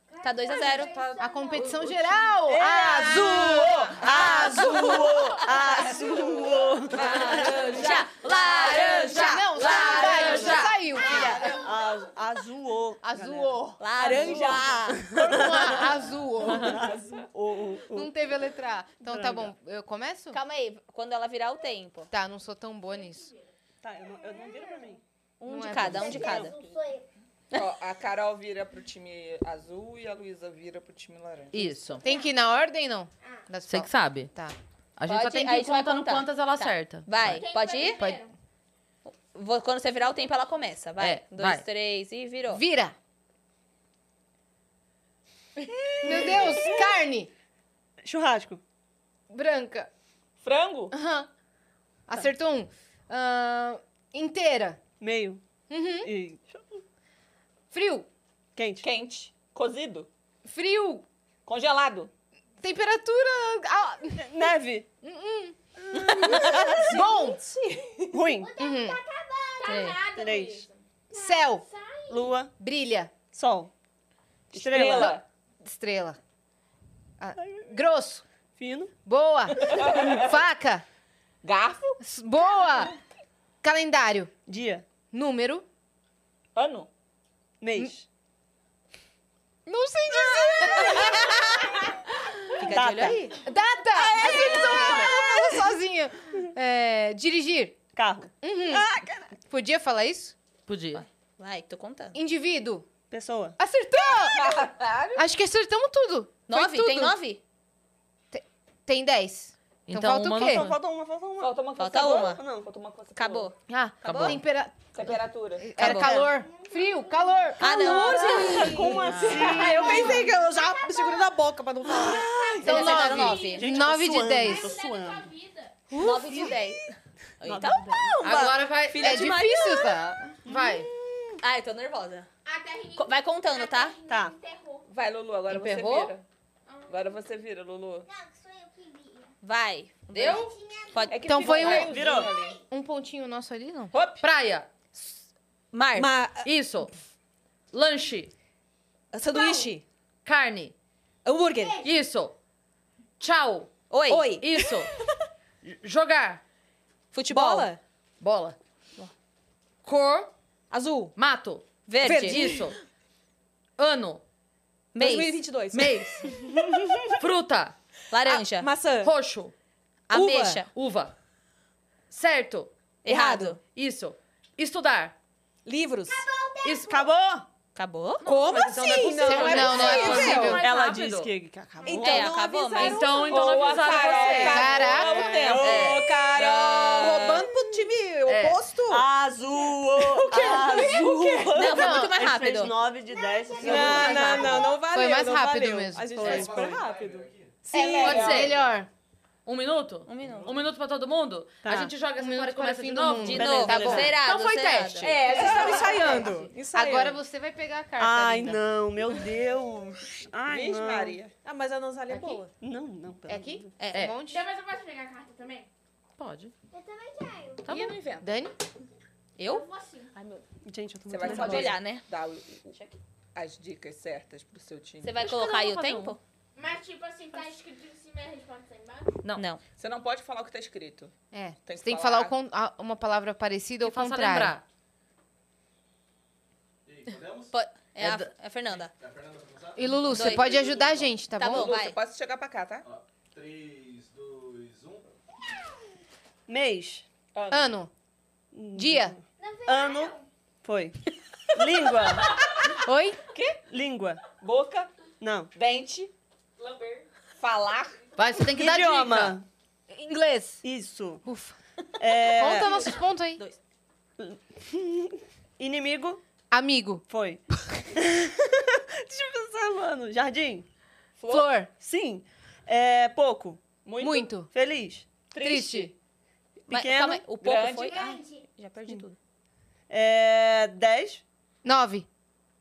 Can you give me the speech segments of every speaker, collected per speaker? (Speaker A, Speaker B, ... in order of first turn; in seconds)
Speaker A: 0.2-1.0, 4.2-4.6, 7.0-11.4, 13.8-15.8, 20.3-22.1, 25.4-26.6, 35.1-38.0, 39.0-42.6, 69.6-70.0, 92.6-93.3, 100.9-102.2, 106.5-107.4, 111.8-112.4, 113.1-114.4, 115.8-116.2, 117.6-119.1, 122.6-123.7, 125.9-126.8, 127.4-129.9, 131.4-132.3, 133.0-134.0, 139.4-141.8, 145.7-146.1, 153.9-154.4, 157.1-157.7, 161.9-162.7, 164.9-165.4, 168.1-168.7, 170.1-170.7, 173.0-173.6, 177.8-178.3, 181.9-183.5, 191.5-192.8, 193.9-194.4, 200.1-200.6, 203.2-205.3, 213.8-214.1, 219.4-220.4, 221.2-222.1, 225.0-226.2, 229.3-229.6, 237.5-238.9, 240.1-240.6, 241.4-242.0, 276.7-279.2
Speaker B: 0.3-1.5, 37.3-38.3, 69.6-72.3, 122.4-123.6, 124.4-125.9, 132.5-134.9, 136.7-137.2, 214.2-215.7, 219.4-220.1, 226.6-229.1
Speaker C: 0.9-2.1, 3.2-5.2, 7.0-10.8, 31.5-32.0, 33.7-34.3, 35.0-37.5, 41.0-41.6, 100.7-101.0, 109.9-110.8, 114.0-114.4, 135.5-136.1, 140.1-140.5, 144.2-144.7, 146.4-146.9, 147.7-148.3, 150.2-150.7, 151.8-152.4, 153.2-153.8, 154.4-154.9, 155.6-156.4, 158.2-158.6, 159.8-160.3, 161.2-162.8, 163.8-164.2, 165.7-166.4, 167.1-167.8, 169.0-169.5, 170.7-171.1, 172.1-172.7, 173.7-175.1, 176.6-176.9, 178.2-181.3, 182.8-184.7, 185.6-186.2, 188.3-188.7, 198.0-198.6, 199.5-205.2, 216.2-216.5, 217.7-218.0, 225.2-226.2, 233.8-234.6, 238.0-238.3, 258.2-259.4
Speaker D: 1.0-1.6, 25.9-27.1, 68.3-69.8, 116.5-117.4, 120.3-121.1, 138.1-139.3, 140.2-141.4, 141.9-142.6, 149.4-149.7, 176.1-177.1, 193.0-194.8, 216.7-217.7, 249.4-250.2, 277.9-278.4
Speaker E: 1.1-4.9, 9.0-11.6, 13.0-14.3, 15.1-16.9, 17.9-20.4, 22.1-23.3, 25.5-26.4, 32.0-34.6, 38.0-38.2, 42.5-43.0, 46.0-47.3, 49.3-49.9, 50.9-51.3, 52.1-54.8, 55.7-56.1, 57.7-58.1, 60.5-61.1, 62.6-64.3, 65.0-67.4, 68.6-69.0, 71.1-71.7, 72.6-73.1, 75.6-76.2, 77.2-78.2, 79.0-80.8, 82.0-82.9, 83.6-84.3, 85.1-85.7, 89.7-91.5, 93.4-97.8, 98.4-98.9, 99.5-100.3, 102.1-102.9, 103.6-104.5, 105.2-107.2, 108.3-110.7, 113.7-120.2, 122.6-124.8, 128.2-130.9, 141.3-142.0, 142.7-143.9, 179.2-180.6, 184.4-185.6, 191.6-192.2, 193.6-196.2, 197.7-198.9, 202.2-204.2, 205.3-208.6, 213.3-214.4, 218.2-218.5, 231.3-234.6, 239.8-241.7, 247.5-247.9, 248.7-249.2, 252.8-253.2, 258.2-258.5, 259.9-260.6, 261.2-261.6, 262.2-263.4, 266.5-267.0, 271.3-271.7, 274.0-274.5, 275.4-275.9, 281.6-282.1
Speaker F: 2.4-7.4, 11.1-18.1, 19.0-19.5, 23.8-25.0, 25.7-26.5, 46.0-46.7, 48.0-48.6, 55.0-55.4, 56.0-56.8, 58.6-58.9, 64.2-64.9, 66.2-66.9, 68.1-68.5, 70.1-70.7, 72.1-72.5, 73.3-73.7, 74.5-75.2, 78.6-78.9, 84.5-84.8, 87.6-88.1, 90.6-91.0, 92.6-93.3, 94.2-95.6, 97.9-99.3, 103.1-103.6, 110.3-112.7, 115.8-116.3, 117.7-120.4, 121.8-125.3, 126.0-126.8, 127.4-128.6, 130.5-131.4, 134.1-134.3, 141.6-142.4, 176.9-177.4, 179.6-182.4, 184.2-186.4, 188.8-194.7, 195.9-197.0, 197.9-198.3, 201.6-201.9, 203.3-204.2, 205.3-206.4, 208.0-211.2, 212.6-213.7, 220.7-221.8, 246.5-247.1, 248.5-251.0, 251.5-252.4, 253.7-254.2, 255.2-255.5, 258.5-259.4, 260.6-261.2, 262.0-262.8, 264.2-266.2, 267.1-270.7, 271.8-275.1, 276.7-277.3, 279.9-281.2
Speaker G: 27.5-31.8, 50.4-50.9, 58.8-60.1, 61.5-62.1, 74.5-75.2, 79.6-80.3, 81.4-82.0, 86.5-86.9, 94.3-95.0, 104.3-105.2, 111.4-113.5, 114.9-115.7, 134.9-136.2, 136.9-138.1, 141.1-142.6, 143.9-144.2, 183.1-187.4, 210.5-211.3, 217.7-218.4, 221.1-225.3, 229.8-231.1, 231.7-232.3, 241.4-242.8, 247.3-247.7, 253.3-253.6, 254.4-254.9, 255.6-256.1, 257.4-258.0, 271.2-271.5, 275.3-275.9, 277.4-278.0
Speaker H: 66.1-68.2, 118.0-122.3, 146.0-146.5, 149.1-149.8, 151.2-151.8, 154.1-154.7, 157.3-157.8, 160.7-161.2, 162.0-162.6, 165.0-166.3, 168.3-169.1, 170.1-170.7, 173.1-173.6, 175.7-176.3, 178.2-180.6, 181.8-183.3, 183.9-184.5, 185.8-189.1, 189.9-191.6, 193.6-198.6, 205.0-207.2, 211.4-212.5
Speaker I: 196.2-197.7, 198.3-198.8, 200.2-200.6, 236.9-237.6, 238.7-241.2, 242.8-245.1